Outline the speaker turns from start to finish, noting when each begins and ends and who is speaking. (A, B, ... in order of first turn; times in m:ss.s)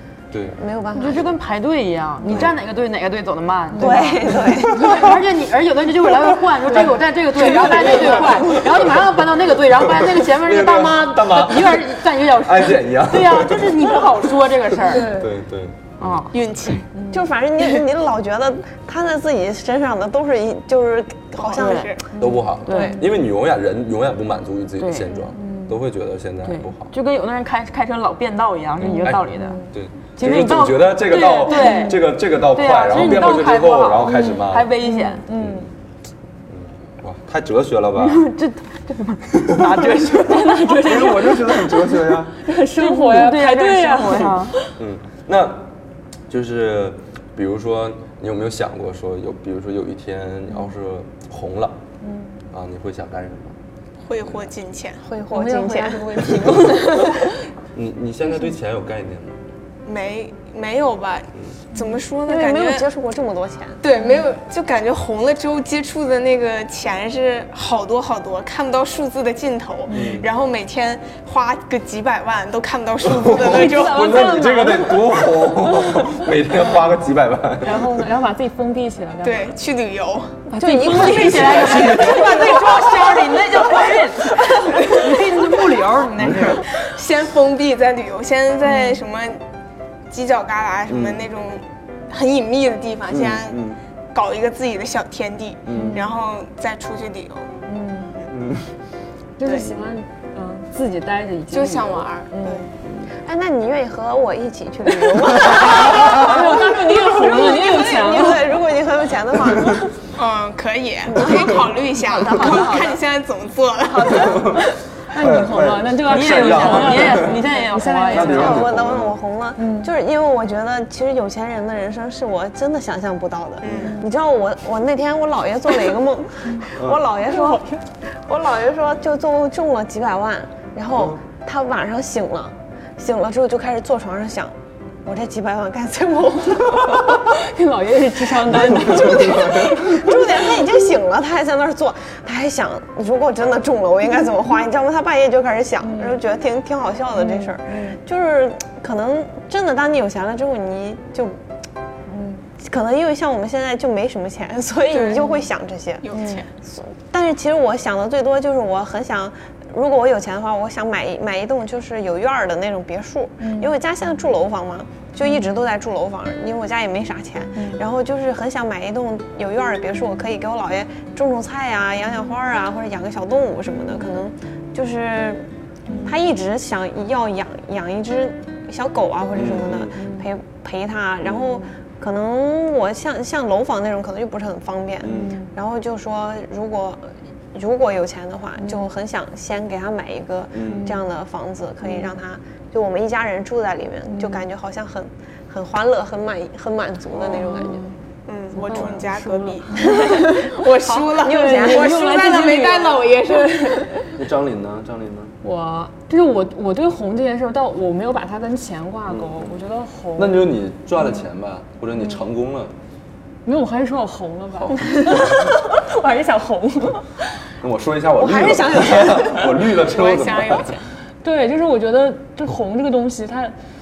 0:00.3-0:00.6 A
0:00.5-0:01.4 B
0:00.9-0:15.1 C
0:02.2-0:02.5 D
0:02.3-0:02.5 A
0:03.7-0:05.0 D
0:03.8-0:04.9 B
0:04.5-0:05.2 A
0:06.1-0:09.2 A
0:07.6-0:08.5 D
0:09.7-0:14.1 A
0:14.8-0:15.3 D
0:14.9-0:16.3 A
0:16.0-0:16.3 C
0:16.3-0:16.9 E
0:16.9-0:17.3 D
0:17.1-0:21.9 B
0:21.4-0:22.1 E
0:21.6-0:21.9 C
0:22.1-0:23.1 D
0:22.2-0:26.9 A
0:22.6-0:23.0 C
0:24.8-0:25.2 C
0:25.3-0:25.8 D
0:26.4-0:29.6 C
0:28.8-0:34.7 A
0:28.8-0:29.7 D
0:30.2-0:35.2 C
0:31.4-0:32.0 D
0:34.0-0:35.7 D
0:35.3-0:35.7 A
0:36.5-0:38.3 A
0:38.0-0:41.3 C
0:39.4-0:40.1 A
0:40.2-0:44.7 D
0:40.8-0:42.4 A
0:42.8-0:44.6 C
0:44.8-0:45.7 A
0:46.3-0:51.8 A
0:52.0-0:52.4 D
0:52.5-0:53.6 A
0:54.0-0:55.0 E
0:55.0-0:57.2 B
0:55.3-0:57.3 D
0:57.7-0:59.4 A
0:59.8-1:02.9 E
1:02.2-1:03.8 B
1:03.8-1:14.4 E
1:04.0-1:04.2 D
1:09.9-1:10.2 D
1:09.9-1:10.3 A
1:13.0-1:18.1 A
1:13.3-1:16.3 D
1:17.6-1:19.5 D
1:19.2-1:20.4 E
1:20.5-1:22.4 D
1:20.6-1:22.8 B
1:20.6-1:26.6 C
1:21.1-1:22.4 A
1:24.7-1:25.0 E
1:26.2-1:26.6 A
1:26.7-1:29.4 E
1:28.7-1:29.0 D
1:30.1-1:37.5 E
1:30.9-1:31.2 A
1:33.1-1:33.8 A
1:35.6-1:36.0 A
1:35.7-1:36.1 D
1:37.6-1:38.1 D
1:38.3-1:38.7 A
1:39.4-1:42.7 D
1:41.5-1:42.7 E
1:43.2-1:50.0 B
1:45.4-1:48.6 D
1:45.5-1:46.3 A
1:50.1-1:54.6 E
1:51.1-1:53.0 B
1:54.2-1:57.4 A
1:55.1-1:58.6 D
1:56.0-1:58.7 C
1:58.1-1:59.2 A
1:58.2-2:17.3 B
1:59.6-1:59.9 D
2:03.6-2:04.0 A
2:03.8-2:04.1 D
2:06.7-2:07.0 A
2:07.3-2:07.8 D
2:10.9-2:11.2 A
2:17.1-2:20.4 D
2:18.4-2:31.4 B
2:18.6-2:19.8 A
2:25.8-2:26.2 D
2:27.1-2:28.0 D
2:32.1-2:32.4 D
2:32.6-2:55.5 B
2:34.9-2:35.3 E
2:36.0-2:36.5 E
2:36.1-2:36.4 D
2:43.4-2:43.7 D
2:45.2-2:45.6 D
2:47.5-2:47.8 D
2:55.9-2:56.2 D
2:56.0-3:17.8 B
2:59.3-3:00.0 A
2:59.9-3:00.3 D
3:05.0-3:05.3 A
3:05.1-3:05.5 D
3:08.6-3:08.9 D
3:10.5-3:10.9 A
3:10.6-3:11.0 D
3:11.8-3:12.2 D
3:14.1-3:14.4 D
3:17.3-3:17.9 D
3:18.2-3:24.1 E
3:18.5-3:20.4 D
3:19.8-3:22.1 B
3:21.4-3:24.1 D
3:21.6-3:22.9 C
3:24.1-3:25.3 A
3:25.4-3:30.5 D
3:29.1-3:29.6 A
3:30.2-3:32.7 A
3:33.4-3:37.1 D
3:37.6-3:40.8 A
3:38.2-3:39.7 B
3:39.7-3:40.8 E
3:41.2-3:43.5 D